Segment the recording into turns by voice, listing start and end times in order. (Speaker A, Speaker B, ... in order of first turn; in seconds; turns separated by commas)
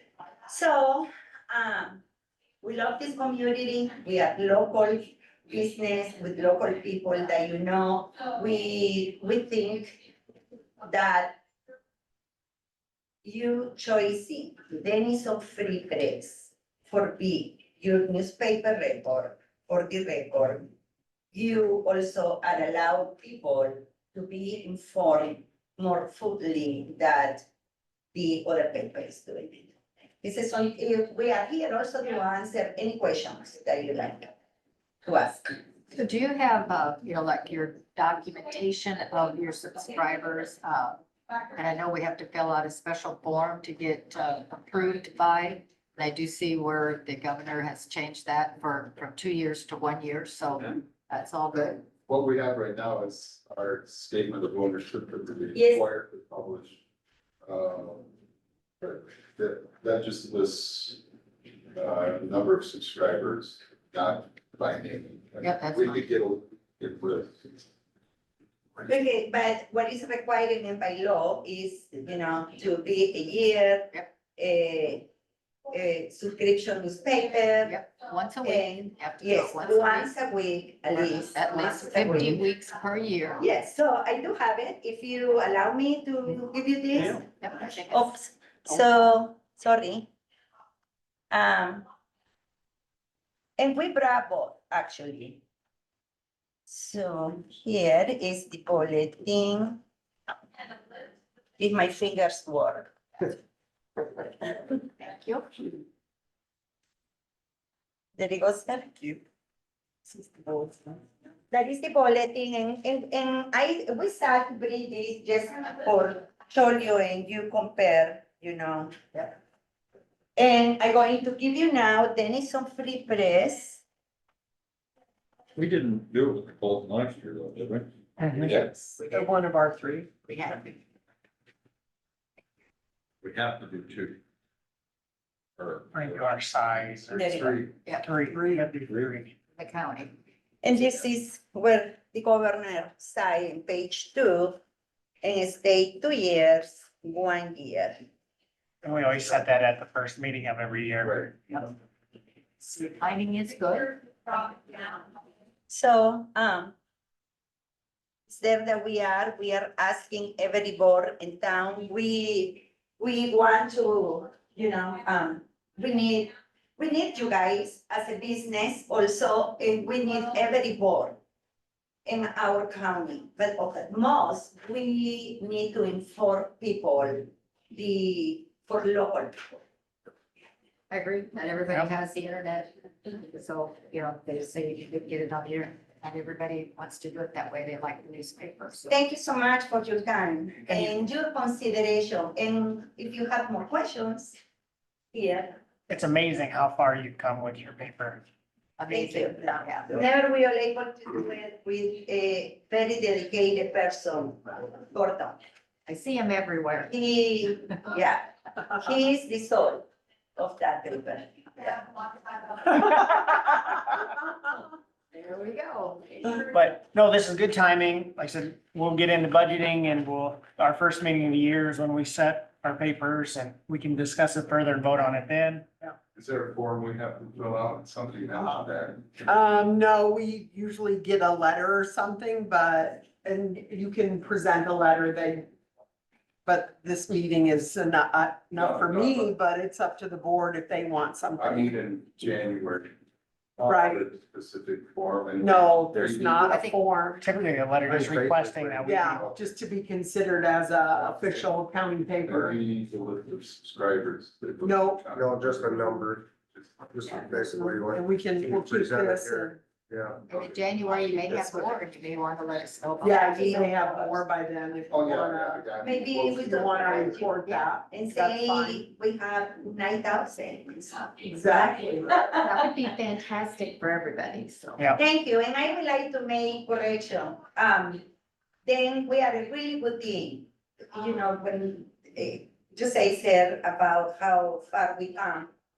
Speaker A: 0.5-2.0, Speaker A: 2.6-10.0, Speaker A: 10.8-11.4, Speaker A: 13.2-20.7, Speaker A: 21.3-27.5, Speaker A: 28.1-29.7, Speaker A: 30.2-34.3, Speaker A: 35.0-35.6, Speaker B: 35.9-41.0, Speaker B: 41.5-51.9, Speaker C: 52.1-56.8, Speaker A: 55.5-55.9, Speaker C: 57.5-58.1, Speaker C: 58.8-61.0, Speaker C: 61.8-67.6, Speaker B: 65.4-66.1, Speaker A: 68.8-75.1, Speaker A: 75.7-77.8, Speaker B: 77.6-80.1, Speaker A: 78.4-82.4, Speaker B: 80.9-83.4, Speaker A: 83.4-87.3, Speaker B: 87.2-88.1, Speaker A: 87.9-90.1, Speaker A: 91.3-91.8, Speaker A: 93.6-95.4, Speaker A: 96.7-99.8, Speaker A: 101.6-103.3, Speaker B: 105.0-105.6, Speaker A: 108.2-109.2, Speaker A: 110.1-119.3, Speaker A: 120.4-123.8, Speaker D: 125.5-128.7, Speaker E: 128.2-128.5, Speaker F: 128.7-130.1, Speaker B: 130.3-130.8, Speaker D: 133.2-134.2, Speaker D: 135.6-135.9, Speaker E: 135.9-139.3, Speaker A: 137.1-137.6, Speaker C: 137.4-137.7, Speaker F: 138.3-138.7, Speaker B: 139.6-140.2, Speaker A: 140.6-144.6, Speaker A: 145.2-148.0, Speaker E: 148.8-151.7, Speaker C: 151.0-151.3, Speaker B: 152.6-154.8, Speaker A: 155.7-156.8, Speaker A: 158.3-171.2, Speaker A: 172.1-179.6, Speaker B: 180.9-188.9, Speaker A: 188.9-194.4, Speaker A: 195.1-195.6, Speaker E: 195.9-198.2, Speaker B: 198.8-199.9, Speaker A: 198.9-205.4, Speaker B: 205.9-206.9, Speaker A: 206.9-211.8, Speaker B: 215.1-216.5, Speaker E: 216.5-225.7, Speaker C: 226.2-229.4, Speaker F: 229.3-235.5, Speaker F: 236.5-241.8, Speaker C: 238.6-239.3, Speaker C: 241.4-242.9, Speaker C: 243.6-246.6, Speaker F: 243.7-244.0, Speaker F: 245.4-247.2, Speaker B: 246.5-246.8, Speaker E: 247.2-249.2, Speaker G: 247.8-249.0, Speaker F: 248.8-252.6, Speaker C: 249.1-249.4, Speaker C: 252.2-257.1, Speaker F: 254.6-255.1, Speaker G: 255.1-256.3, Speaker G: 256.9-260.2, Speaker F: 257.1-259.6, Speaker B: 260.3-264.2, Speaker C: 260.3-261.3, Speaker G: 261.5-261.8, Speaker F: 263.0-265.7, Speaker A: 263.4-263.7, Speaker C: 264.9-267.1, Speaker A: 265.8-267.3, Speaker F: 266.4-268.9, Speaker B: 267.4-267.7, Speaker A: 267.9-272.4, Speaker F: 271.2-272.1, Speaker B: 272.3-274.9, Speaker A: 275.0-278.0, Speaker A: 278.6-285.5